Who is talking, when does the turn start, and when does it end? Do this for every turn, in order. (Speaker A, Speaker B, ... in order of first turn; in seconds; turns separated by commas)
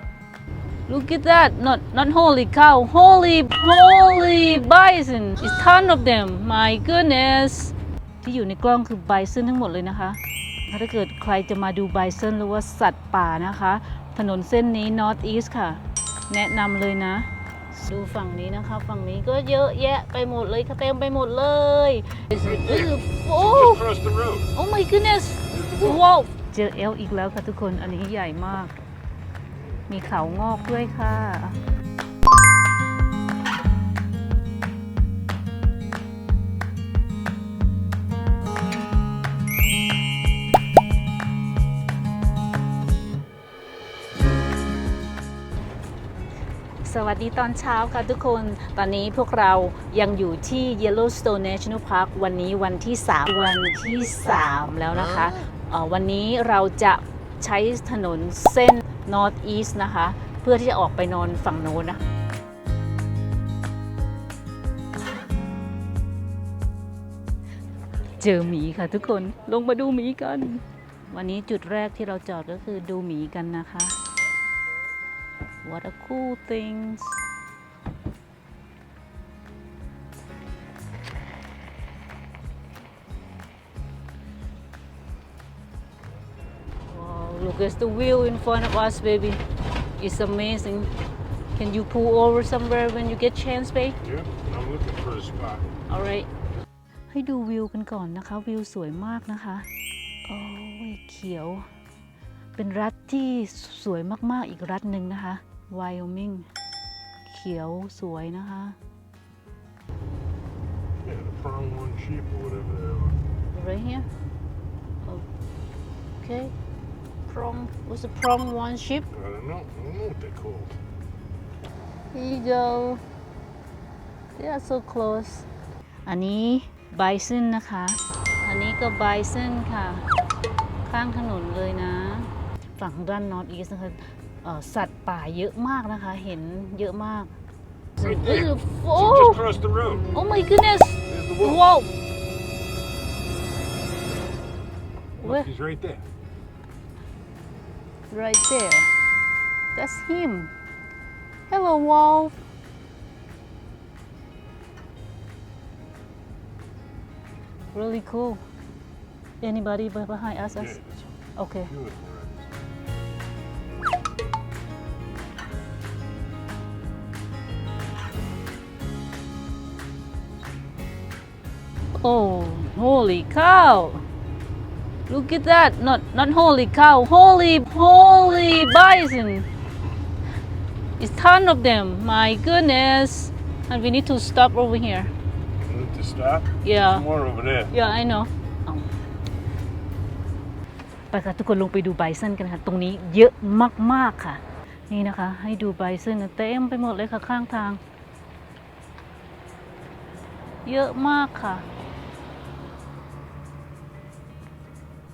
Speaker A: 0.9-23.9, Speaker B: 22.4-24.5, Speaker A: 24.5-28.7, Speaker B: 25.5-26.0, Speaker A: 29.9-31.6, Speaker A: 46.8-62.0, Speaker A: 68.1-74.0, Speaker A: 75.6-77.2, Speaker A: 86.9-89.4, Speaker A: 90.0-90.9, Speaker A: 91.5-94.0, Speaker B: 94.0-95.7, Speaker A: 95.9-96.3, Speaker A: 97.1-99.7, Speaker A: 100.3-101.7, Speaker A: 102.5-106.5, Speaker A: 107.2-108.8, Speaker B: 111.0-113.2, Speaker A: 113.5-114.1, Speaker A: 116.2-116.5, Speaker A: 117.3-119.1, Speaker B: 119.1-120.8, Speaker A: 122.1-123.0, Speaker A: 124.3-125.5, Speaker A: 126.0-130.1, Speaker A: 130.9-137.3, Speaker A: 138.0-139.4, Speaker B: 138.0-140.1, Speaker A: 140.1-141.9, Speaker B: 141.1-141.6, Speaker A: 145.2-145.5, Speaker B: 145.2-146.1, Speaker A: 148.1-148.9, Speaker A: 149.7-150.5, Speaker A: 151.5-152.3, Speaker A: 157.7-158.4, Speaker A: 159.4-160.8, Speaker B: 160.5-161.1, Speaker A: 161.3-161.7, Speaker B: 161.7-162.5, Speaker A: 171.9-174.0, Speaker A: 175.1-179.5, Speaker A: 181.0-185.1, Speaker B: 185.6-187.7, Speaker A: 186.6-187.1, Speaker A: 187.7-188.9, Speaker A: 191.1-197.8, Speaker A: 200.6-201.7